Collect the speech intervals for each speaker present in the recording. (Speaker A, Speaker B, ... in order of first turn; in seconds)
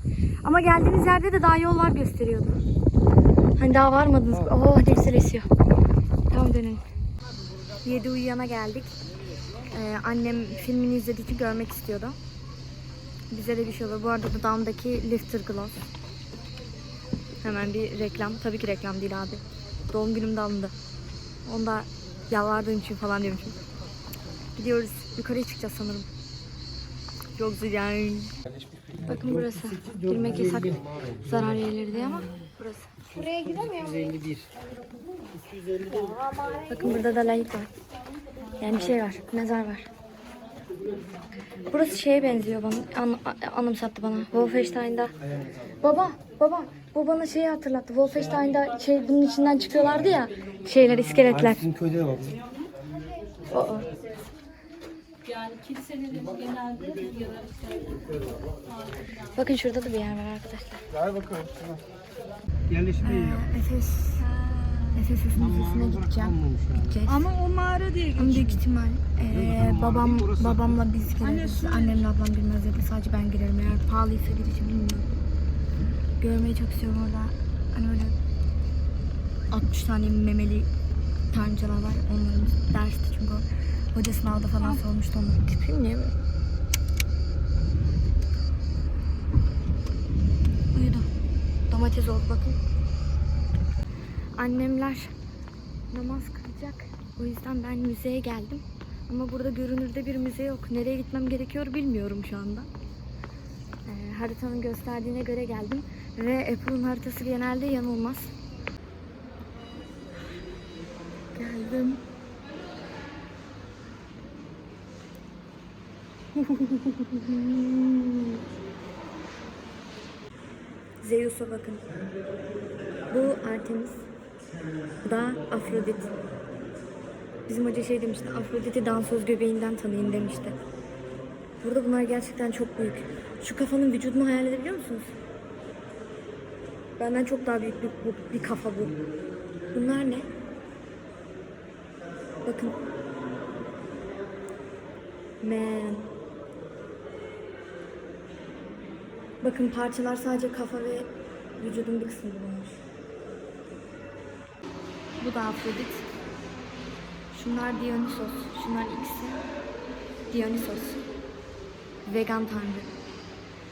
Speaker A: 0.4-2.6, 3.6-5.5, 6.3-6.8, 7.8-8.9, 9.7-12.2, 13.3-15.8, 17.4-20.7, 21.4-23.6, 24.6-26.1, 27.4-28.3, 29.1-32.9, 36.7-37.7, 38.6-39.9, 41.7-45.1, 45.8-51.6, 53.5-53.9, 59.4-60.8, 63.0-64.2, 64.9-67.3, 68.2-75.1, 76.2-78.2, 79.5-80.7, 81.3-86.1, 90.7-91.1, 91.7-92.6, 94.4-95.1, 95.9-102.7, 103.8-108.3, 111.3-112.0, 116.5-118.4, 121.0-121.9, 123.1-124.1, 125.0-126.1, 127.5-130.6, 131.6-135.1, 137.0-139.0, 139.7-140.3, 142.4-142.8, 145.4-146.1, 149.4-152.8, 155.2-156.1, 157.3-159.4, 160.3-161.0, 162.1-162.9
Speaker B: 28.4-31.6, 33.1-34.5, 35.3-36.3, 51.2-52.4, 61.2-61.8, 62.7-63.5, 65.3-67.0, 69.3-70.8
Speaker C: 55.2-57.9, 64.2-65.0, 67.1-68.6, 71.2-72.0